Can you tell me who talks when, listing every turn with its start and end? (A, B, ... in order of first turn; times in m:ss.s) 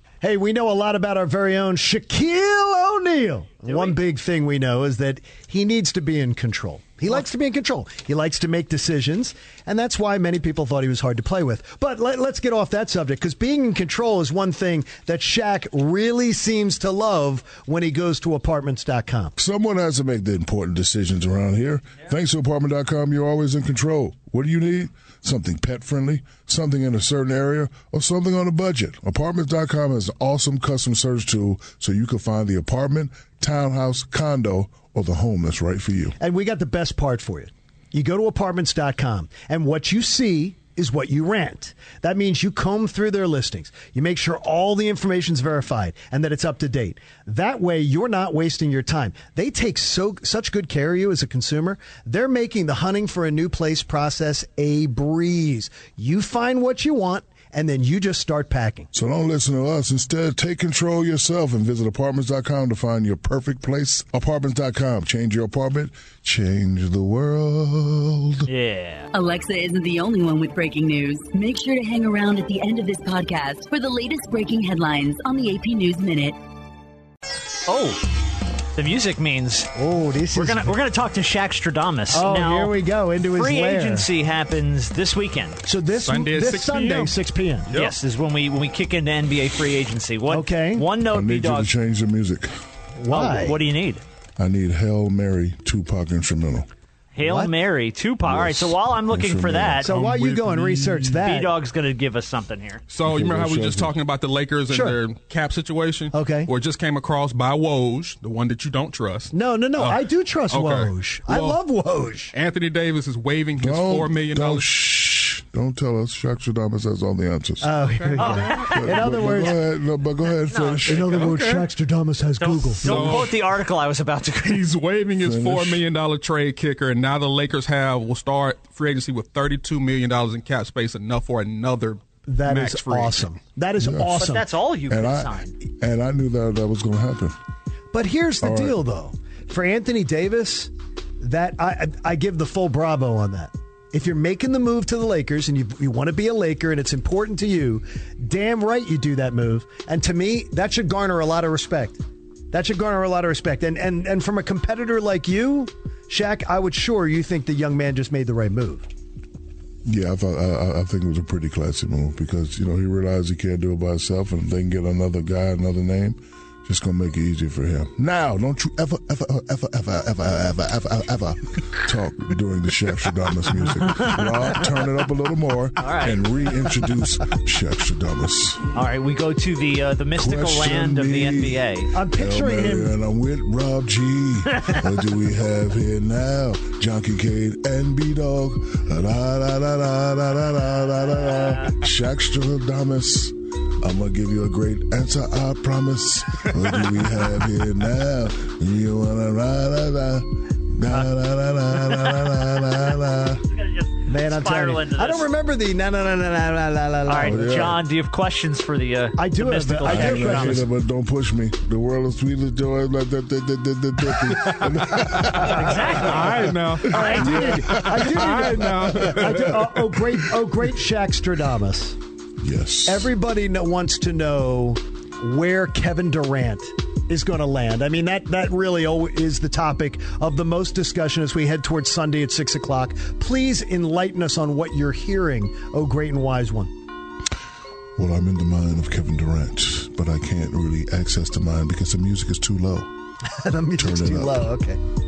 0:00.2-0:19.4 A
0:03.7-0:04.0 B
0:19.4-0:36.2 C
0:36.2-0:58.9 A
0:58.9-1:08.5 C
1:08.5-1:09.1 B
1:09.1-1:16.4 D
1:17.7-1:18.0 B
1:18.8-1:19.7 B
1:19.8-1:20.8 A
1:20.3-1:22.8 B
1:22.1-1:24.1 A
1:23.3-1:25.6 B
1:25.7-1:27.7 A
1:26.0-1:27.2 E
1:27.7-1:31.7 B
1:30.3-1:30.9 A
1:31.1-1:32.5 C
1:33.0-1:33.6 A
1:33.1-1:34.0 B
1:34.4-1:36.7 C
1:37.2-1:39.9 B
1:37.2-1:37.5 A
1:38.2-1:40.3 C
1:39.8-1:41.6 A
1:40.0-1:41.1 E
1:41.2-1:42.8 B
1:42.9-1:51.6 E
1:43.0-1:44.0 C
1:44.7-1:45.0 A
1:46.1-1:46.5 A
1:49.3-1:52.3 A
1:52.3-1:54.7 E
1:53.6-1:57.7 C
1:57.6-1:59.6 A
1:58.2-1:59.2 B
1:58.5-2:01.4 C
2:00.5-2:01.2 B
2:00.8-2:03.3 A
2:01.1-2:01.7 E
2:02.4-2:04.7 B
2:02.8-2:03.4 E
2:04.4-2:13.3 E
2:05.2-2:05.8 C
2:12.3-2:14.5 A
2:13.8-2:14.4 C
2:14.2-2:15.6 B
2:14.9-2:17.4 C
2:17.9-2:38.9 A
2:18.4-2:18.8 C
2:39.8-2:58.6 C
2:55.8-2:56.2 B
2:58.8-3:01.9 B
3:00.2-3:23.4 C
3:01.9-3:02.9 A
3:23.5-3:25.3 B
3:24.1-3:27.8 A
3:27.1-3:30.7 B
3:27.2-3:27.8 C
3:29.2-3:30.6 A
3:29.8-3:39.4 C
3:34.5-3:39.8 E
3:35.4-3:37.6 B
3:36.9-3:42.0 A
3:42.4-3:43.1 C
3:42.9-3:56.7 A
3:58.0-4:02.9 C
4:03.3-4:04.8 A
4:03.8-4:04.5 C